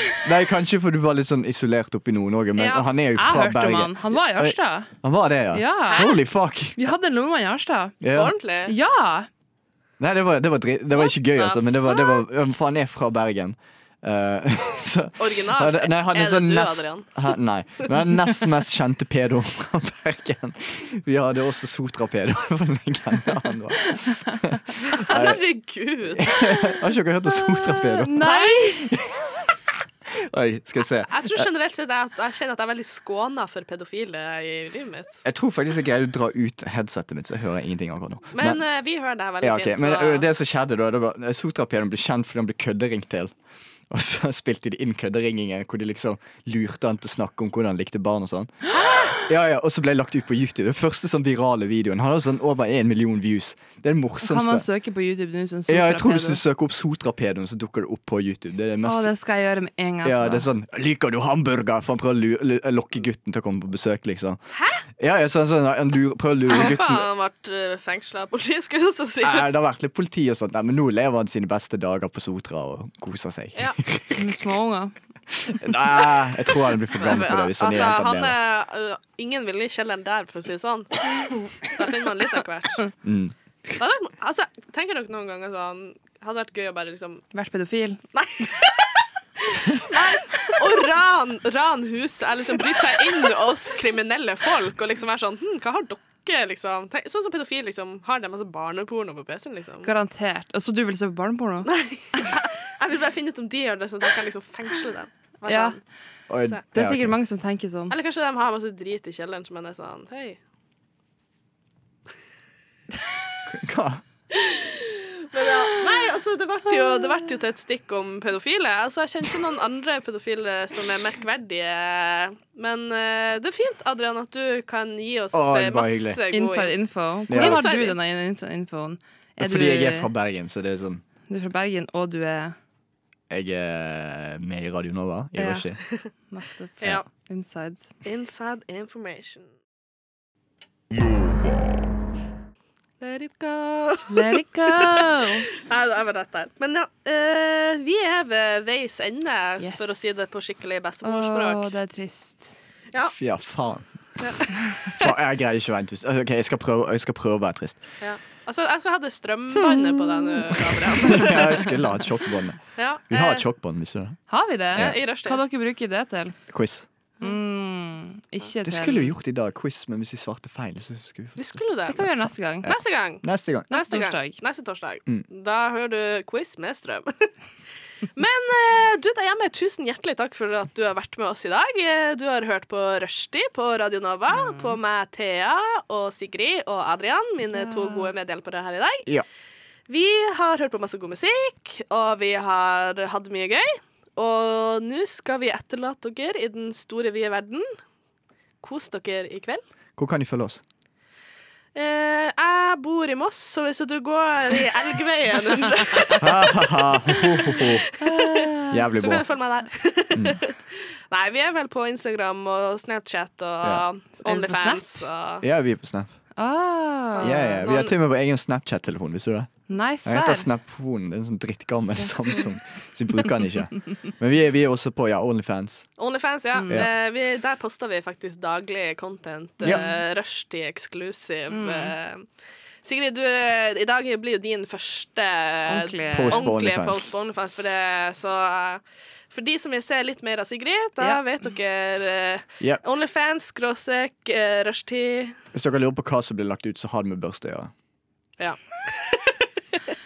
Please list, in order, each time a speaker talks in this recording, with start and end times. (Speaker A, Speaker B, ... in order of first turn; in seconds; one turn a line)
Speaker A: 0.2-6.9
Speaker B: 2.6-4.9
Speaker B: 5.5-6.1
Speaker C: 5.9-6.2
Speaker B: 6.7-7.9
Speaker A: 8.0-8.3
Speaker C: 8.1-8.7
Speaker B: 8.7-9.3
Speaker A: 10.0-25.4
Speaker C: 11.0-12.2
Speaker C: 15.2-17.3
Speaker C: 24.8-26.5
Speaker A: 26.1-31.5
Speaker B: 27.6-28.9
Speaker C: 28.2-28.6
Speaker C: 31.1-35.2
Speaker A: 35.2-38.6
Speaker C: 38.3-40.2
Speaker A: 39.4-43.3
Speaker A: 43.9-54.6
Speaker B: 48.9-49.1
Speaker B: 54.2-56.4
Speaker A: 55.7-59.1
Speaker B: 58.8-60.5
Speaker A: 60.0-64.4
Speaker C: 64.5-64.8
Speaker A: 65.0-67.0
Speaker C: 66.5-69.5
Speaker A: 69.2-74.4
Speaker B: 74.1-74.9
Speaker A: 75.3-78.3
Speaker C: 76.9-82.9
Speaker A: 83.0-83.3
Speaker C: 83.8-87.2
Speaker B: 87.3-88.0
Speaker C: 88.1-99.9
Speaker B: 90.2-90.5
Speaker B: 99.8-102.3
Speaker C: 101.6-105.8
Speaker B: 105.5-105.8
Speaker A: 106.3-107.1
Speaker B: 106.7-107.9
Speaker C: 107.9-110.4
Speaker A: 113.5-114.0
Speaker C: 114.3-128.0
Speaker B: 115.6-116.0
Speaker A: 125.3-126.2
Speaker B: 126.3-130.1
Speaker A: 127.3-127.6
Speaker A: 129.4-131.0
Speaker B: 131.3-132.6
Speaker A: 133.3-135.8
Speaker B: 135.3-135.7
Speaker B: 136.3-137.9
Speaker C: 138.0-139.5
Speaker C: 143.0-145.0
Speaker B: 144.1-145.5
Speaker C: 145.6-151.7
Speaker B: 149.6-150.2
Speaker B: 151.0-152.5
Speaker A: 153.1-153.9
Speaker C: 154.2-155.1
Speaker A: 154.9-157.8
Speaker C: 158.0-161.6
Speaker A: 160.4-164.2
Speaker B: 161.1-161.5
Speaker C: 162.8-163.4
Speaker B: 164.3-166.3
Speaker C: 164.7-165.4
Speaker A: 166.5-166.8
Speaker B: 167.2-169.1
Speaker A: 168.6-172.0
Speaker C: 171.4-172.1
Speaker B: 171.9-172.7
Speaker A: 172.6-173.7
Speaker C: 172.6-177.3
Speaker B: 173.7-174.4
Speaker C: 178.2-189.1
Speaker B: 184.3-184.8
Speaker B: 187.5-188.1
Speaker C: 189.9-197.8
Speaker C: 198.6-199.6
Speaker A: 200.0-200.6
Speaker C: 201.7-206.7
Speaker B: 205.9-206.2
Speaker A: 206.2-207.9
Speaker B: 207.1-208.8
Speaker C: 207.5-215.4
Speaker A: 208.7-209.2
Speaker A: 210.1-210.4
Speaker B: 214.2-215.0
Speaker A: 215.4-216.1
Speaker B: 216.3-217.6
Speaker C: 217.1-217.9
Speaker A: 217.2-225.9
Speaker B: 219.7-220.5
Speaker C: 226.0-232.2
Speaker B: 226.5-226.8
Speaker B: 229.7-230.0
Speaker B: 231.5-231.9
Speaker C: 232.8-245.4
Speaker B: 235.7-236.5
Speaker A: 236.1-237.1
Speaker A: 245.5-247.7
Speaker C: 248.4-249.5